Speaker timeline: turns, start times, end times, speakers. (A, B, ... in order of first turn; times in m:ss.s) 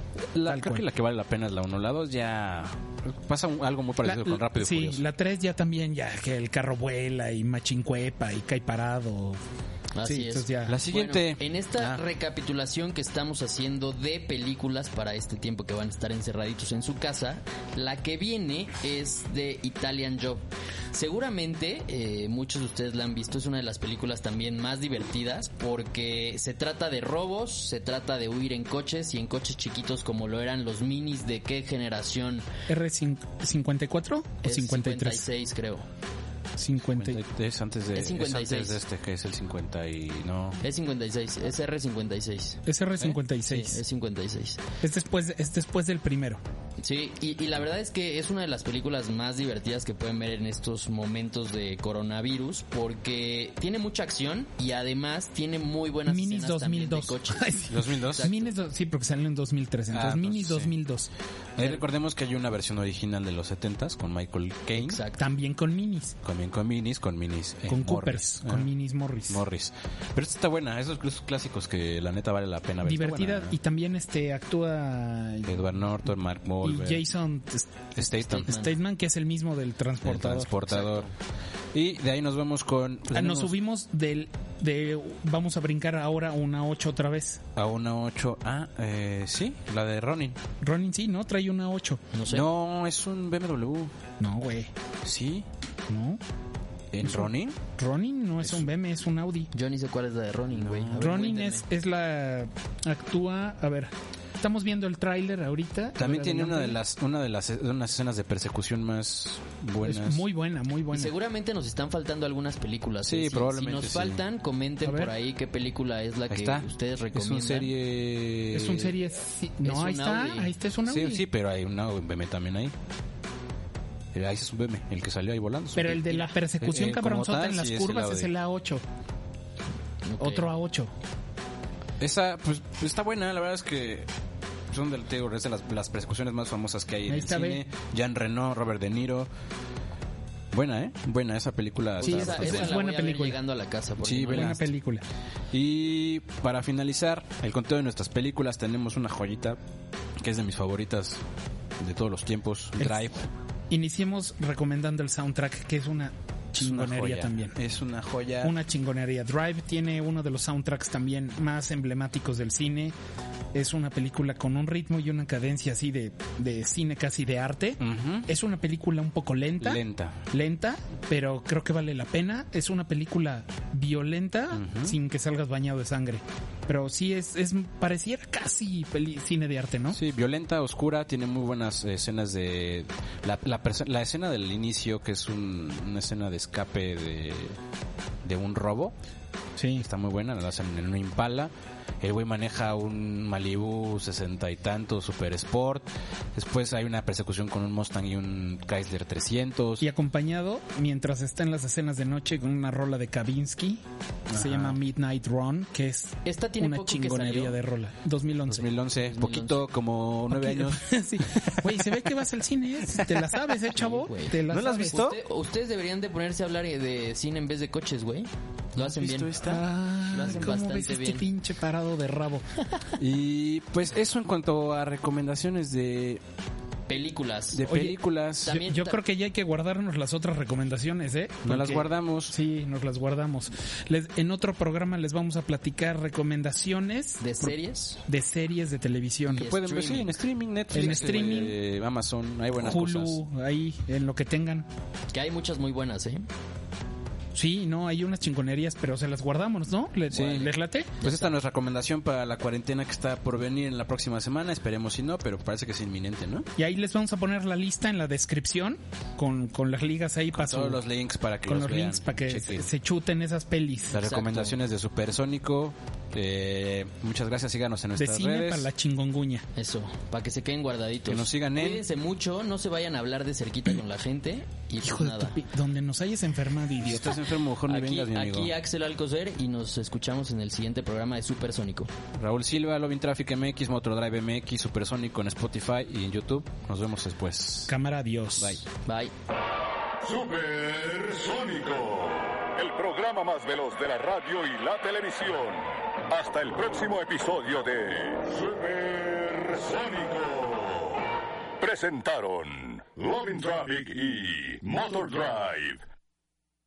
0:00.3-0:05.0 A
0:00.4-0:00.8 B
0:04.0-0:09.4 B
0:09.9-0:32.5 C
0:10.0-0:10.8 B
0:10.7-0:12.0 A
0:32.7-0:35.3 B
0:34.4-0:35.8 C
0:36.6-0:37.2 B
0:36.9-0:40.6 A
0:37.9-0:38.8 C
0:40.6-0:42.6 C
0:42.7-0:43.8 B
0:43.5-0:44.6 C
0:44.8-0:46.4 B
0:46.8-0:58.5 C
0:56.1-1:01.1 B
0:57.7-0:58.3 A
0:59.9-1:00.7 A
1:01.6-1:05.0 A
1:04.8-1:05.3 C
1:05.2-1:06.2 B
1:06.2-1:08.7 A
1:07.7-1:09.4 B
1:09.3-1:13.6 A
1:12.8-1:15.7 B
1:15.5-1:17.0 A
1:16.6-1:20.5 B
1:18.0-1:18.6 A
1:18.3-1:18.7 C
1:20.0-1:21.1 A
1:20.7-1:21.1 C
1:21.7-1:23.5 A
1:23.1-1:27.4 B
1:27.6-1:30.4 A
1:30.6-1:32.0 B
1:32.1-1:32.5 C
1:32.3-1:33.9 A
1:34.2-1:34.7 B
1:35.0-1:35.5 A
1:35.9-1:36.2 B
1:36.9-1:37.6 A
1:37.0-1:39.5 B
1:39.5-1:41.6 C
1:40.5-1:41.0 A
1:41.0-1:46.8 B
1:46.0-1:50.2 A
1:49.8-1:51.1 B
1:50.9-1:57.7 C
1:53.0-1:54.2 A
1:54.8-1:55.1 B
1:56.3-1:59.0 A
1:58.5-2:01.2 B
1:59.6-2:00.5 C
2:00.9-2:02.7 A
2:04.1-2:08.3 A
2:05.8-2:08.8 B
2:10.0-2:10.5 C
2:10.2-2:10.9 B
2:12.0-2:14.1 A
2:14.7-2:19.3 A
2:17.1-2:17.6 B
2:20.5-2:22.8 A
2:22.0-2:24.6 C
2:22.0-2:23.4 B
2:24.0-2:24.7 A
2:24.3-2:25.0 B
2:25.5-2:29.6 A
2:30.2-2:31.2 A
2:31.8-2:33.3 A
2:32.8-2:33.1 B
2:33.7-2:37.6 B
2:36.6-2:38.6 A
2:38.4-2:43.0 B
2:43.5-3:00.0 B
2:47.8-2:48.3 A
2:49.6-2:50.2 A
2:54.5-2:55.0 A
2:59.9-3:07.6 A
3:08.2-3:08.9 A
3:09.6-3:09.9 B
3:09.8-3:19.9 A
3:19.8-3:28.7 B
3:24.3-3:24.8 A
3:26.2-3:27.6 C
3:28.5-3:32.0 A
3:29.1-3:29.6 C
3:30.3-3:35.0 B
3:32.9-3:33.4 A
3:33.8-3:39.4 C
3:34.5-3:35.2 A
3:38.8-3:39.6 A
3:39.4-3:42.5 B
3:40.1-3:41.3 C
3:43.0-3:46.2 A
3:46.9-3:47.6 C
3:47.5-3:48.6 A
3:47.6-3:59.5 B
3:48.4-3:49.0 C
3:51.4-3:52.4 A
3:57.2-3:58.0 C
3:59.3-4:00.2 C
3:59.3-4:03.2 A
4:00.7-4:01.6 B
4:02.6-4:04.7 B
4:05.1-4:06.2 C
4:07.3-4:11.1 B
4:10.1-4:10.5 A
4:11.0-4:16.5 A
4:16.6-4:20.8 B
4:20.3-4:22.7 A
4:21.5-4:24.0 B
4:23.9-4:28.7 A
4:24.0-4:24.6 C
4:28.0-4:29.5 B
4:29.6-4:35.4 C
4:31.1-4:31.8 A
4:34.8-4:37.2 B
4:36.8-4:38.5 A
4:37.7-4:41.9 C
4:42.2-4:47.7 A
4:47.7-4:48.6 B
4:48.4-4:48.6 A
4:48.8-4:49.1 C
4:50.0-5:05.8 D